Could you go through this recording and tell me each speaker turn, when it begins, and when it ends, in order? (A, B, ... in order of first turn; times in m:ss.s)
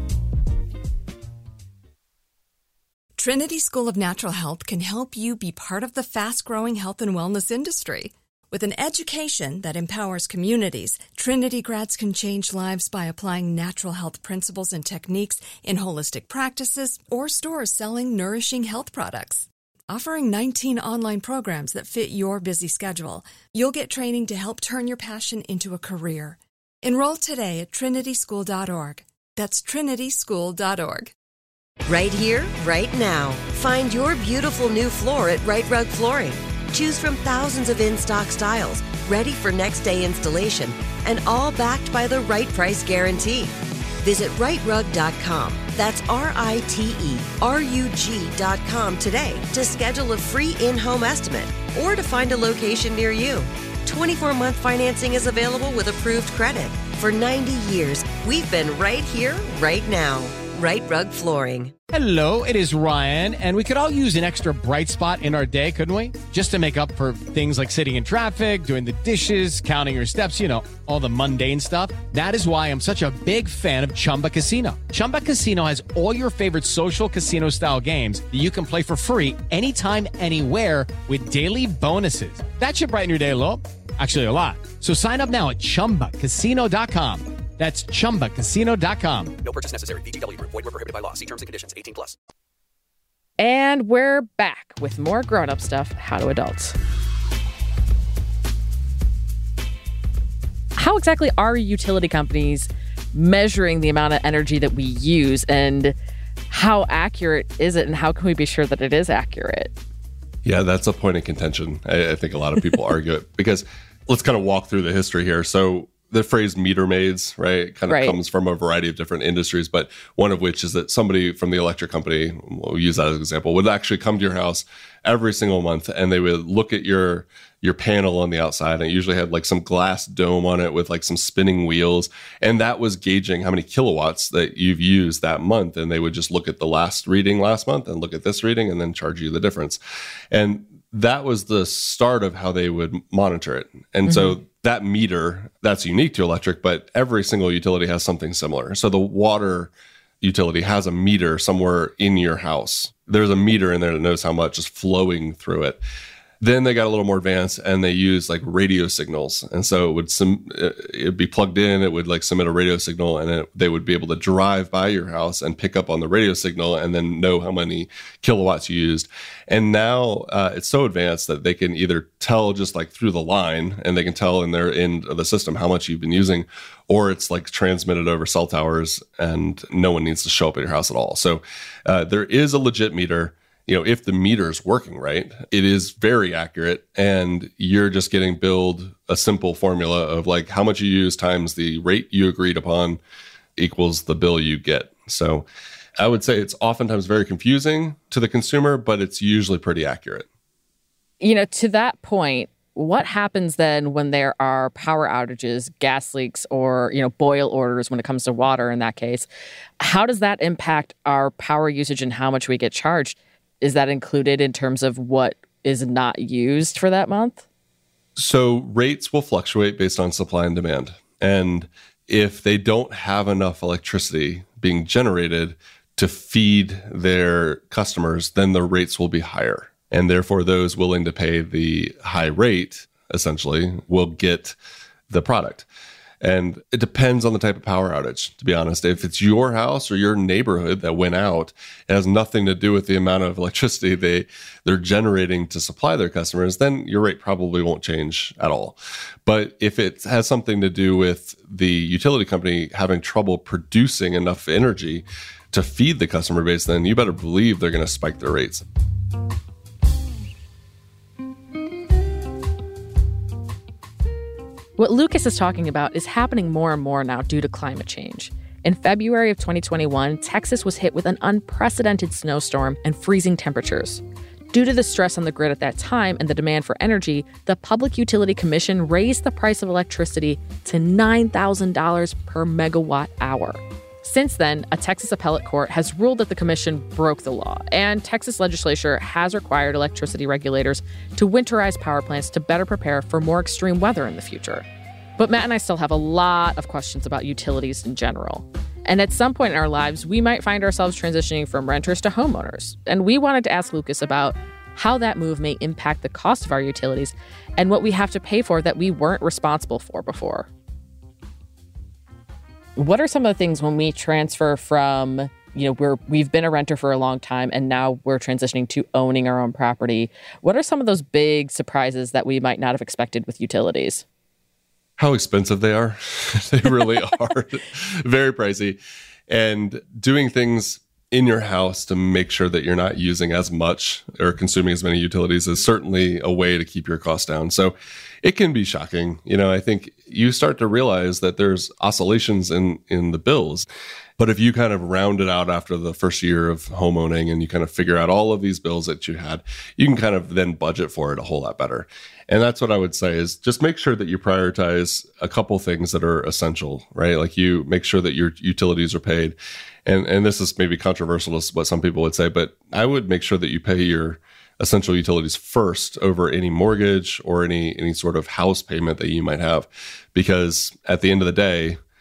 0:03.2-0:31.1 A
0:31.9-1:01.7 B
1:01.9-1:29.4 C
1:29.4-1:32.2 D
1:33.4-1:36.8 E
1:40.8-1:45.9 E
1:46.5-1:49.7 E
1:50.4-2:19.8 F
1:57.9-1:58.2 E
2:20.3-2:35.8 F
2:24.0-2:24.4 E
2:36.4-3:13.0 F
3:13.6-3:15.5 F
3:16.0-3:20.2 F
3:21.2-3:29.3 E
3:29.8-3:37.4 E
3:38.2-3:54.6 F
3:55.1-3:55.6 F
3:56.2-4:18.6 F
4:24.8-4:54.6 E
4:55.2-5:10.5 E
5:12.8-5:24.0 E
5:25.0-5:43.7 F
5:44.2-6:11.8 F